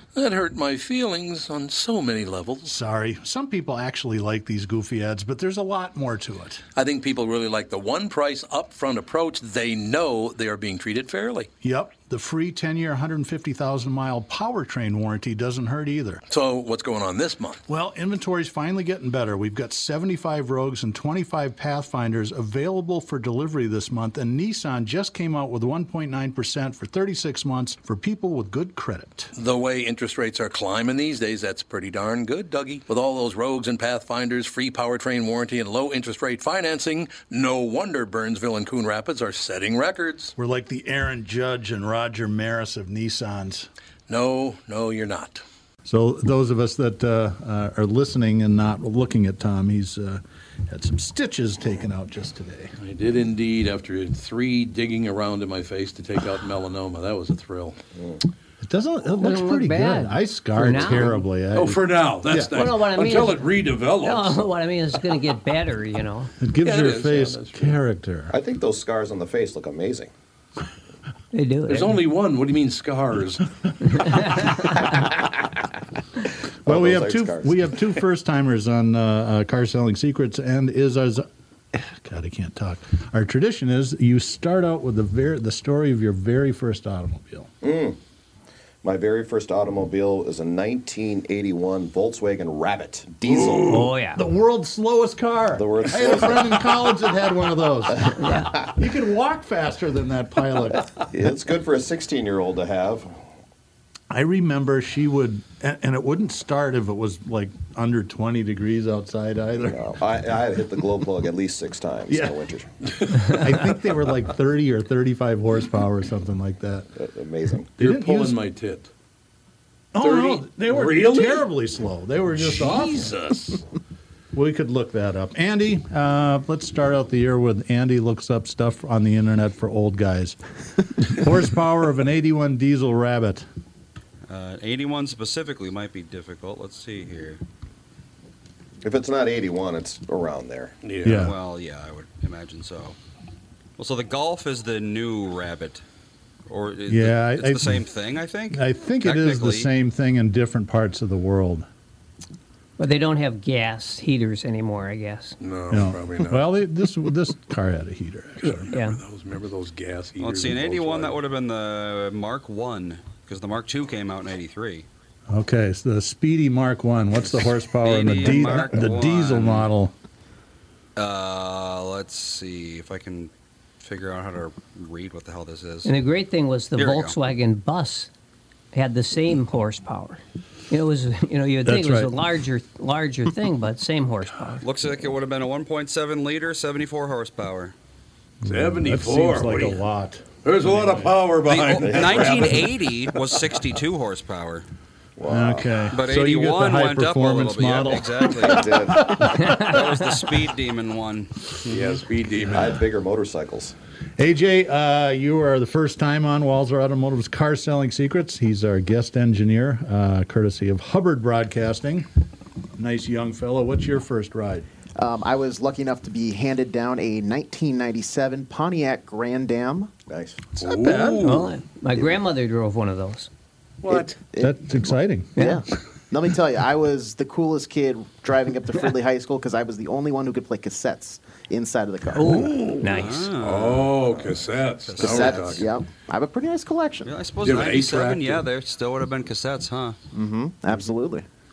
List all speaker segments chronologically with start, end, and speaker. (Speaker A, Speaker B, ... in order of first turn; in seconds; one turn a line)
Speaker A: 0.1-2.8
Speaker B: 2.6-6.6
Speaker A: 6.8-11.5
Speaker B: 11.6-16.2
Speaker A: 16.3-17.6
Speaker B: 17.7-29.3
Speaker A: 29.3-40.3
Speaker B: 40.4-43.7
Speaker A: 44.1-45.4
Speaker B: 45.9-52.7
Speaker A: 52.8-57.8
Speaker B: 58.6-62.6
Speaker C: 59.2-61.1
Speaker A: 60.8-64.4
Speaker C: 62.5-63.4
Speaker C: 64.0-66.3
Speaker B: 66.4-68.3
Speaker A: 66.6-67.8
Speaker D: 68.3-70.1
Speaker C: 71.3-71.9
Speaker A: 71.7-73.5
Speaker C: 74.0-74.7
Speaker D: 76.6-77.6
Speaker B: 76.7-87.5
Speaker D: 87.6-88.0
Speaker D: 88.8-93.8
Speaker B: 93.5-100.9
Speaker C: 93.7-94.2
Speaker D: 95.6-97.0
Speaker C: 98.1-98.6
Speaker D: 101.1-103.1
Speaker B: 104.1-109.8
Speaker D: 109.6-112.7
Speaker B: 112.1-112.4
Speaker A: 113.0-113.4
Speaker B: 113.1-116.9
Speaker D: 117.0-117.7
Speaker B: 117.8-118.4
Speaker A: 117.8-118.9
Speaker B: 119.9-123.1
Speaker A: 120.0-121.5
Speaker A: 122.4-123.6
Speaker B: 124.3-130.4
Speaker B: 131.0-133.4
Speaker E: 134.3-137.4
Speaker D: 138.8-140.8
Speaker A: 140.8-141.3
Speaker B: 141.0-141.4
Speaker E: 141.1-142.9
Speaker E: 143.8-145.8
Speaker E: 146.5-149.7
Speaker B: 146.9-147.8
Speaker B: 148.5-151.7
Speaker C: 152.8-155.4
Speaker A: 155.4-156.6
Speaker B: 155.7-158.7
Speaker A: 158.4-161.2
Speaker C: 158.7-159.0
Speaker E: 160.2-164.8
Speaker B: 165.3-169.9
Speaker E: 167.8-169.7
Speaker E: 170.9-175.9
Speaker C: 175.8-178.1
Speaker E: 176.8-177.1
Speaker C: 178.7-184.6
Speaker B: 181.6-182.1
Speaker E: 184.6-187.7
Speaker B: 188.4-191.2
Speaker A: 188.4-189.8
Speaker A: 190.4-192.7
Speaker E: 191.5-194.6
Speaker D: 191.8-192.4
Speaker D: 195.2-195.8
Speaker B: 195.3-199.8
Speaker E: 195.9-201.3
Speaker D: 198.4-199.2
Speaker A: 201.7-202.8
Speaker D: 202.5-203.8
Speaker B: 204.2-212.1
Speaker B: 212.8-214.7
Speaker F: 215.0-219.9
Speaker D: 220.1-220.4
Speaker A: 220.6-221.5
Speaker F: 220.7-221.2
Speaker C: 221.2-223.3
Speaker A: 223.8-224.2
Speaker F: 223.9-232.6
Speaker B: 224.4-225.4
Speaker C: 232.1-233.3
Speaker B: 232.2-232.8
Speaker E: 232.8-234.1
Speaker A: 233.4-235.7
Speaker E: 234.9-235.7
Speaker F: 235.0-237.1
Speaker E: 237.1-239.9
Speaker A: 237.4-238.4
Speaker F: 240.1-241.2